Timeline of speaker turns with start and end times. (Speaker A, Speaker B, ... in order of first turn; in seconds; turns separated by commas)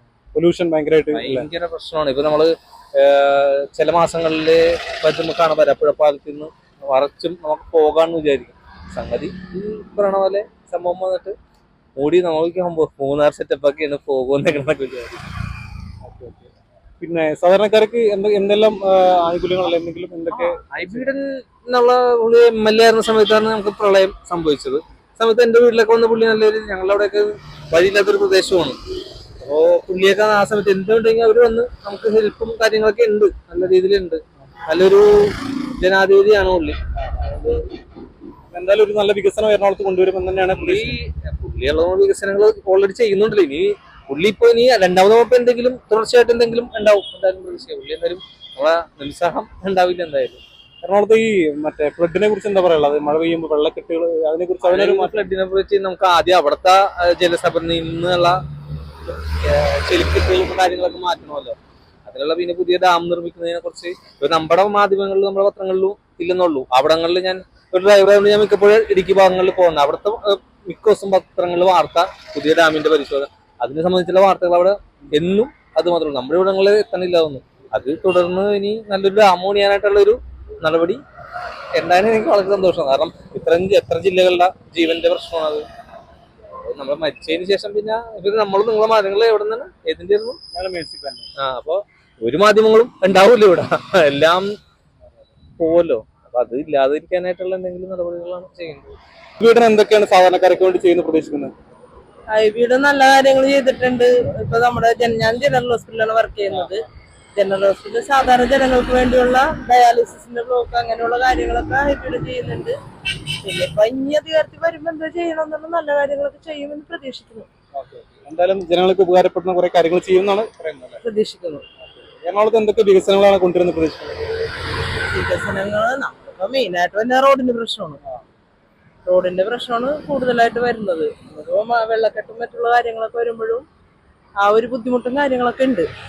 Speaker A: 0.3-1.5, Speaker B: 1.1-11.3, Speaker B: 11.9-15.2, Speaker A: 16.0-16.4, Speaker A: 17.0-20.6, Speaker B: 20.3-28.8, Speaker B: 29.4-37.5, Speaker A: 38.5-41.0, Speaker B: 40.5-50.4, Speaker A: 50.8-55.1, Speaker B: 54.6-58.4, Speaker B: 59.1-81.0, Speaker B: 81.8-85.7, Speaker B: 86.7-90.4, Speaker A: 90.5-91.2, Speaker B: 91.4-94.5, Speaker B: 95.6-98.9, Speaker A: 99.4-101.5, Speaker C: 102.3-106.8, Speaker C: 107.3-112.8, Speaker C: 113.4-117.5, Speaker A: 117.8-121.0, Speaker C: 121.0-121.6, Speaker A: 122.2-124.2, Speaker C: 125.0-128.0, Speaker C: 129.0-133.7, Speaker C: 134.4-135.9